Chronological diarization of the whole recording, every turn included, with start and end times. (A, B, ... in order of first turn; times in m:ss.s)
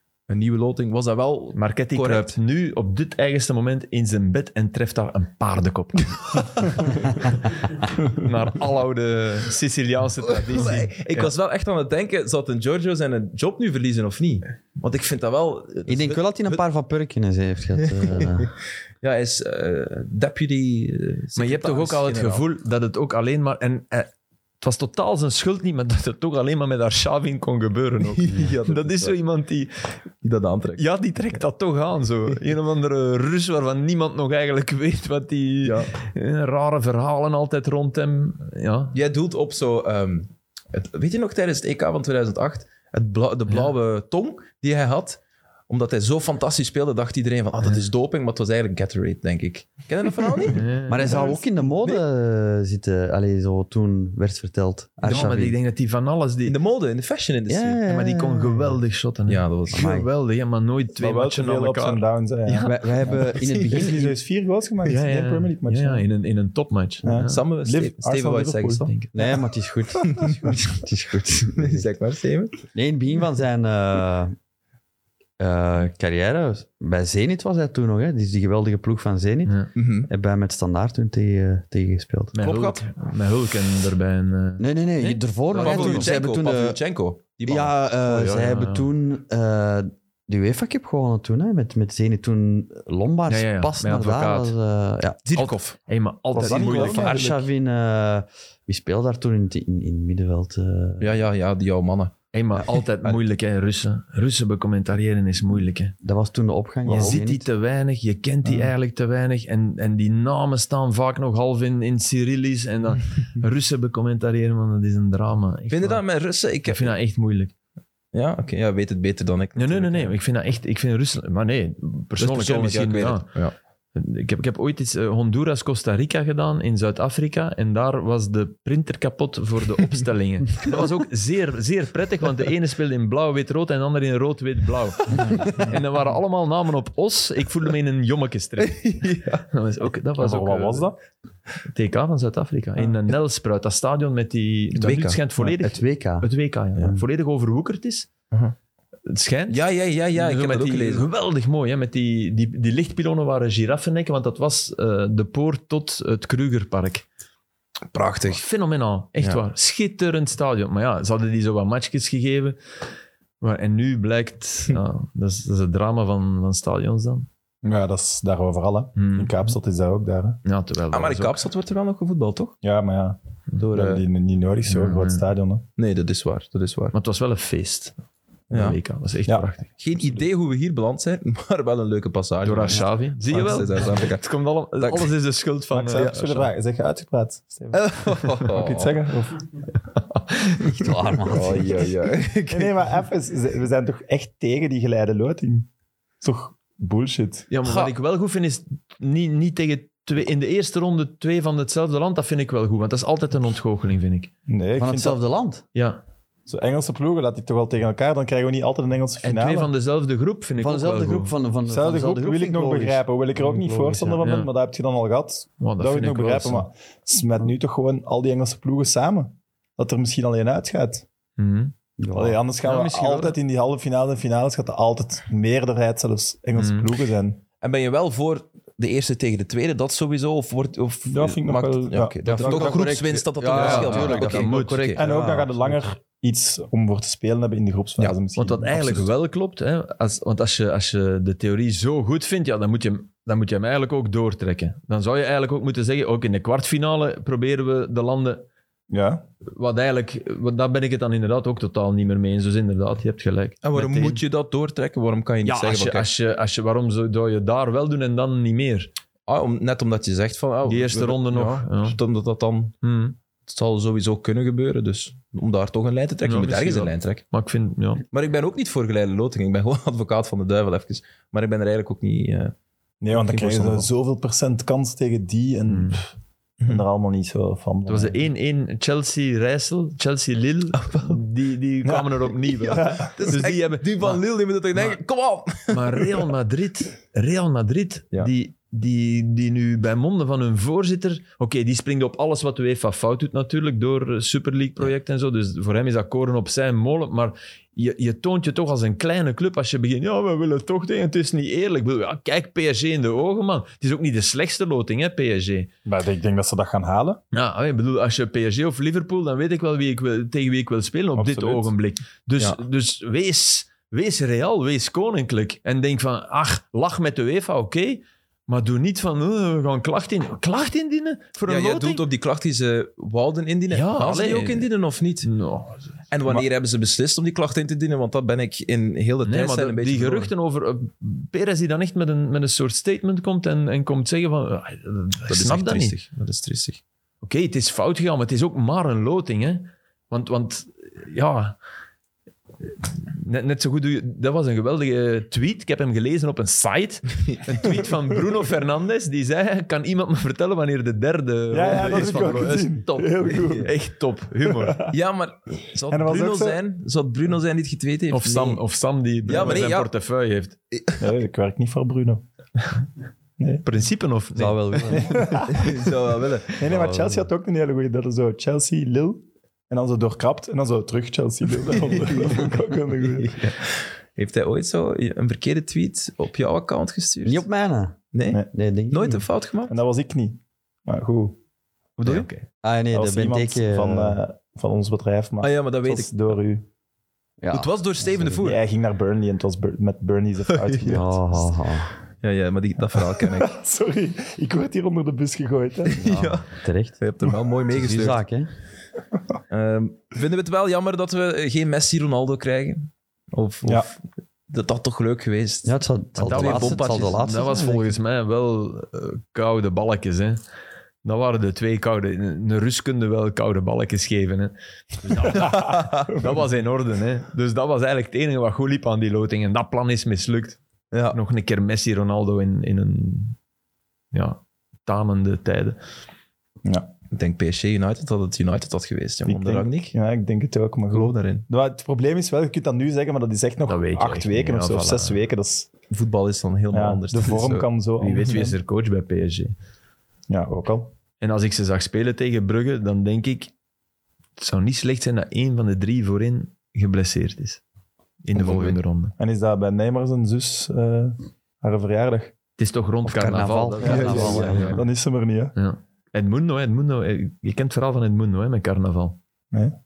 0:00.3-0:02.4 A
0:01.5-0:11.3 B
0:06.4-0:06.9 A
0:10.5-0:16.6 A
0:15.9-0:18.5 C
0:17.8-0:18.5 A
0:19.0-0:22.4 A
0:21.4-0:24.1 B
0:24.6-0:29.9 B
0:28.2-0:29.2 A
0:30.2-0:31.4 A
0:30.8-0:39.0 B
0:35.6-0:35.9 A
0:38.9-0:52.0 A
0:50.5-0:51.2 B
0:50.9-0:55.6 C
0:55.0-0:56.6 B
0:55.1-0:55.3 A
0:56.4-0:57.8 A
0:57.5-0:58.8 C
0:57.8-1:02.8 B
0:59.3-0:59.8 A
0:59.7-1:00.1 C
1:01.0-1:06.0 D
1:02.6-1:04.1 C
1:03.4-1:03.8 A
1:04.8-1:07.4 B
1:07.0-1:09.4 D
1:07.2-1:08.9 A
1:09.1-1:11.9 C
1:09.9-1:10.5 D
1:11.6-1:12.6 A
1:12.7-1:14.4 C
1:15.4-1:22.4 C
1:19.8-1:20.1 A
1:22.3-1:26.2 B
1:22.4-1:22.9 A
1:24.6-1:26.8 C
1:25.1-1:27.8 A
1:27.4-1:35.2 C
1:28.1-1:28.9 B
1:33.3-1:34.6 B
1:35.2-1:35.8 A
1:35.4-1:37.2 B
1:36.3-1:37.2 D
1:36.4-1:37.5 A
1:36.5-1:41.1 C
1:41.0-1:42.1 A
1:42.3-1:46.0 B
1:46.0-1:47.4 C
1:46.9-1:47.2 D
1:47.0-1:56.0 B
1:55.7-1:56.9 A
1:56.7-1:57.5 B
1:58.1-2:00.2 A
1:59.6-2:03.3 B
2:02.2-2:03.5 A
2:03.9-2:20.9 B
2:18.6-2:19.4 A
2:20.2-2:20.9 D
2:21.7-2:28.1 B
2:24.8-2:25.2 A
2:25.4-2:26.3 C
2:29.1-2:29.6 B
2:29.5-2:31.1 A
2:30.1-2:37.1 B
2:37.9-2:38.4 A
2:38.3-2:42.6 B
2:43.4-2:47.3 B
2:47.6-2:50.4 D
2:49.0-2:49.4 B
2:50.4-2:51.4 B
2:50.9-2:52.6 A
2:52.6-2:53.2 D
2:53.6-2:54.1 A
2:53.7-2:55.6 D
2:54.7-2:55.2 B
2:55.8-2:56.9 A
2:56.9-2:57.9 B
2:58.5-2:58.8 A
2:58.5-3:00.2 B
2:59.8-3:05.1 A
3:02.4-3:06.5 B
3:05.7-3:09.5 D
3:05.9-3:06.2 A
3:07.7-3:09.0 A
3:09.9-3:10.8 B
3:10.6-3:11.7 C
3:11.3-3:12.9 A
3:12.5-3:15.7 D
3:16.2-3:17.5 D
3:17.5-3:24.3 B
3:17.6-3:17.9 A
3:24.5-3:25.2 D
3:24.8-3:25.6 C
3:25.7-3:26.0 B
3:26.5-3:29.7 D
3:29.2-3:31.4 B
3:30.6-3:34.2 C
3:31.7-3:41.0 D
3:34.2-3:34.5 B
3:35.6-3:36.7 B
3:41.4-3:41.7 B
3:42.0-3:42.4 C
3:42.1-3:47.4 D
3:42.6-3:43.4 B
3:46.6-3:46.9 B
3:47.6-3:55.1 A
3:51.1-3:52.6 D
3:52.2-3:55.9 C
3:52.4-3:54.9 B
3:55.0-3:59.1 D
3:58.4-4:08.4 B
4:08.9-4:09.2 D
4:09.4-4:14.2 B
4:13.6-4:16.1 A
4:15.4-4:18.9 B
4:19.3-4:22.8 A
4:20.6-4:22.0 B
4:22.8-4:23.2 B
4:23.5-4:27.2 A
4:26.2-4:28.0 B
4:28.1-4:32.5 A
4:33.0-4:38.2 D
4:33.1-4:33.9 A
4:35.7-4:36.0 B
4:37.9-4:44.2 B
4:40.8-4:41.2 A
4:41.8-4:43.3 D
4:43.1-4:46.2 A
4:44.7-4:45.0 B
4:45.7-5:05.7 B
5:05.8-5:07.2 D
5:07.3-5:22.0 B
5:11.1-5:11.7 D
5:21.5-5:25.3 A
5:23.7-5:24.7 B
5:25.2-5:26.0 B
5:26.1-5:30.3 A
5:29.2-5:35.9 B
5:35.3-5:36.8 A
5:37.2-5:41.6 B
5:43.0-5:54.8 B
5:51.5-5:53.8 D
5:53.4-5:53.7 A
5:54.4-5:55.0 D
5:54.9-5:58.6 A
5:55.9-5:56.6 D
5:58.1-6:00.6 B
5:59.2-5:59.9 A
6:00.7-6:01.1 A
6:01.0-6:02.2 D
6:03.4-6:03.6 D
6:03.6-6:05.2 B
6:04.4-6:05.4 C
6:04.9-6:05.8 D
6:05.5-6:06.6 A
6:06.6-6:13.4 D
6:06.6-6:07.2 C
6:11.9-6:12.5 A
6:13.1-6:17.5 A
6:17.2-6:18.0 C
6:18.1-6:19.8 A
6:18.5-6:19.2 C
6:19.7-6:21.4 D
6:22.0-6:22.3 A
6:22.0-6:22.4 B
6:22.6-6:24.2 C
6:22.9-6:26.6 D
6:25.4-6:26.2 A
6:27.4-6:28.4 C
6:27.5-6:28.6 A
6:28.3-6:31.2 D
6:30.5-6:31.0 A
6:30.9-6:31.9 C
6:32.2-6:33.5 A
6:32.9-6:36.1 D
6:35.9-6:38.2 A
6:36.0-6:37.0 C
6:37.8-6:38.5 C
6:39.5-6:47.2 A
6:43.6-6:43.9 D
6:45.6-6:48.0 C
6:46.2-6:50.4 B
6:51.0-7:00.6 B
6:55.4-6:56.1 A
7:00.9-7:01.2 A
7:01.1-7:03.4 B
7:04.1-7:05.8 B
7:07.1-7:09.9 A
7:09.2-7:15.7 D
7:10.9-7:11.5 A
7:13.7-7:15.2 B
7:15.9-7:17.7 A
7:16.7-7:18.6 D
7:18.0-7:19.5 B
7:20.3-7:20.9 D
7:21.2-7:23.5 B
7:24.4-7:27.6 B
7:28.2-7:29.1 B
7:28.4-7:32.3 D
7:32.6-7:34.8 B
7:33.0-7:34.8 C
7:33.8-7:35.5 D
7:33.8-7:34.8 A
7:35.6-7:39.2 B